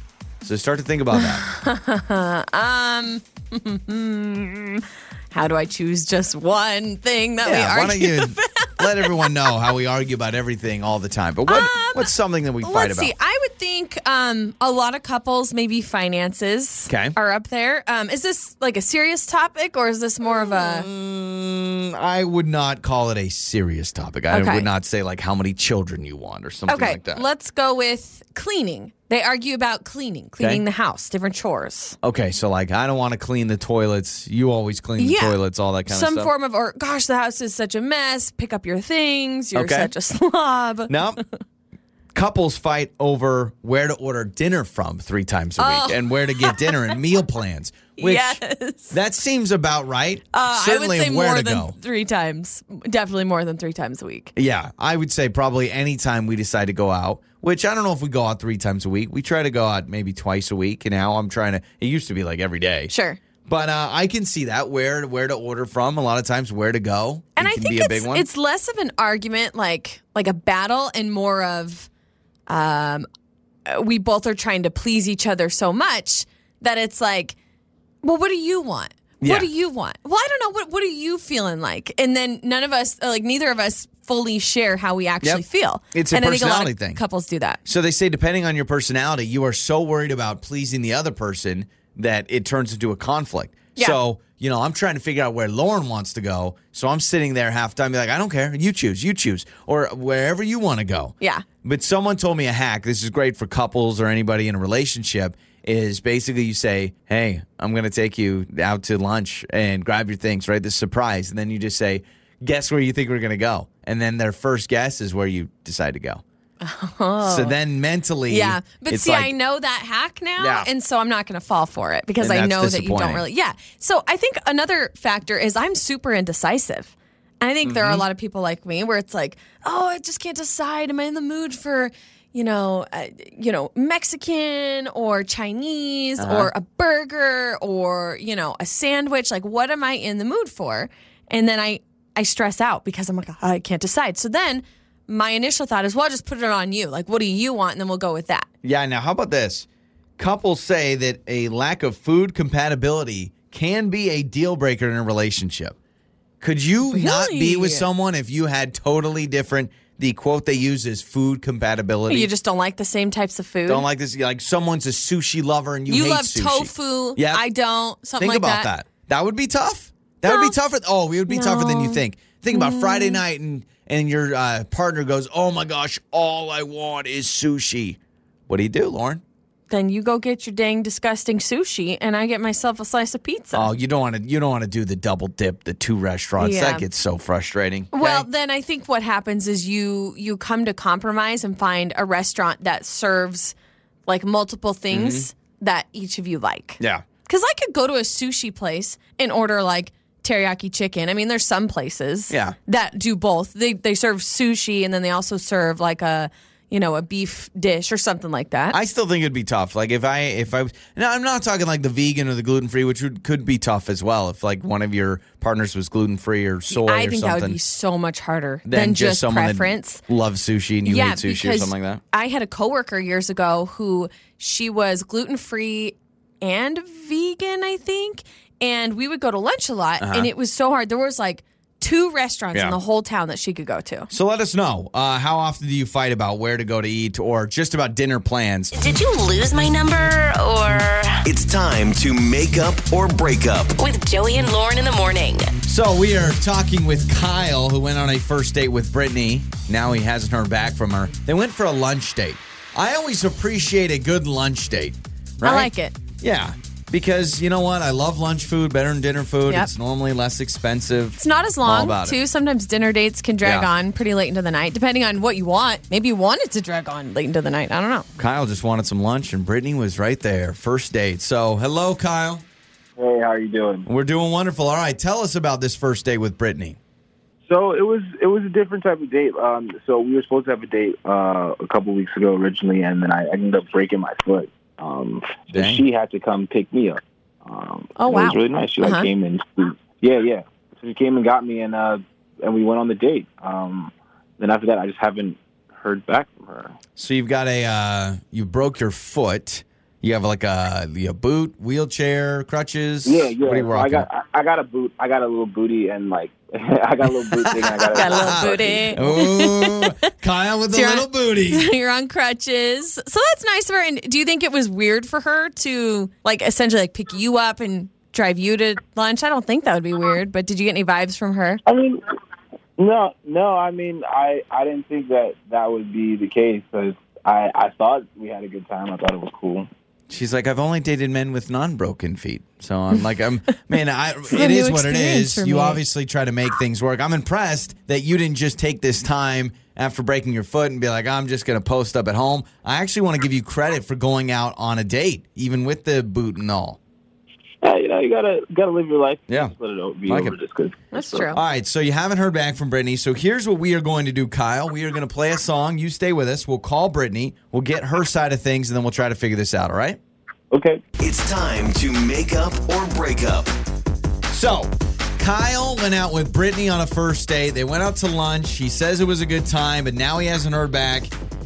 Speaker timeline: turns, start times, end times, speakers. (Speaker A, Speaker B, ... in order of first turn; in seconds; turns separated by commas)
Speaker A: 0.4-1.4, Speaker B: 1.1-9.5, Speaker A: 7.4-13.1, Speaker B: 11.5-20.9, Speaker A: 16.9-17.1, Speaker A: 20.2-27.2, Speaker B: 24.3-24.7, Speaker B: 26.7-32.0, Speaker A: 32.0-36.3, Speaker B: 35.0-41.3, Speaker A: 39.5-39.9, Speaker A: 40.9-41.2, Speaker A: 42.1-48.4, Speaker B: 45.6-47.0, Speaker B: 48.0-49.0, Speaker A: 48.9-51.7, Speaker B: 50.3-54.3, Speaker A: 54.4-62.9, Speaker B: 62.9-63.2, Speaker A: 63.5-68.2, Speaker B: 67.4-71.9, Speaker B: 72.5-73.1, Speaker B: 73.7-77.3, Speaker B: 78.0-87.6, Speaker A: 79.2-79.5, Speaker A: 85.2-87.0, Speaker A: 87.6-116.2, Speaker B: 116.6-117.6, Speaker A: 117.2-119.3, Speaker B: 118.3-148.5, Speaker A: 120.4-120.7, Speaker A: 122.2-123.2, Speaker A: 127.6-128.0, Speaker A: 136.2-136.5, Speaker A: 148.6-149.7, Speaker A: 150.2-155.8, Speaker A: 156.4-162.3, Speaker B: 156.9-157.8, Speaker B: 162.1-163.8, Speaker A: 163.7-167.4, Speaker B: 165.9-168.7, Speaker A: 168.2-179.2, Speaker B: 170.2-170.6, Speaker B: 171.3-173.2, Speaker B: 179.7-183.7, Speaker A: 183.5-188.3, Speaker B: 186.4-186.8, Speaker B: 187.9-193.5, Speaker B: 194.1-208.8, Speaker A: 194.9-195.3, Speaker A: 196.8-197.0, Speaker A: 202.3-202.6, Speaker A: 208.7-217.6, Speaker B: 216.7-220.0, Speaker A: 218.7-222.0, Speaker B: 220.8-234.1, Speaker A: 230.0-230.3, Speaker A: 234.1-238.7, Speaker C: 238.7-241.2, Speaker D: 241.2-243.8, Speaker C: 243.8-245.5, Speaker A: 245.7-262.2, Speaker B: 255.4-255.9, Speaker B: 261.2-268.1, Speaker A: 263.4-263.7, Speaker A: 268.2-272.4, Speaker E: 273.0-273.9, Speaker A: 273.9-276.8, Speaker E: 277.5-296.8, Speaker A: 285.5-285.8, Speaker B: 288.0-289.1, Speaker A: 296.9-304.1, Speaker E: 303.1-309.1, Speaker A: 307.4-311.7, Speaker B: 307.9-310.0, Speaker B: 310.7-321.6, Speaker E: 321.6-322.0, Speaker E: 322.8-329.7, Speaker A: 330.1-346.8, Speaker B: 334.3-335.8, Speaker E: 347.6-351.3, Speaker A: 349.3-349.5, Speaker A: 350.1-350.3, Speaker B: 350.9-351.4, Speaker A: 351.3-360.0, Speaker E: 360.5-360.8, Speaker D: 361.0-363.5, Speaker A: 364.3-371.1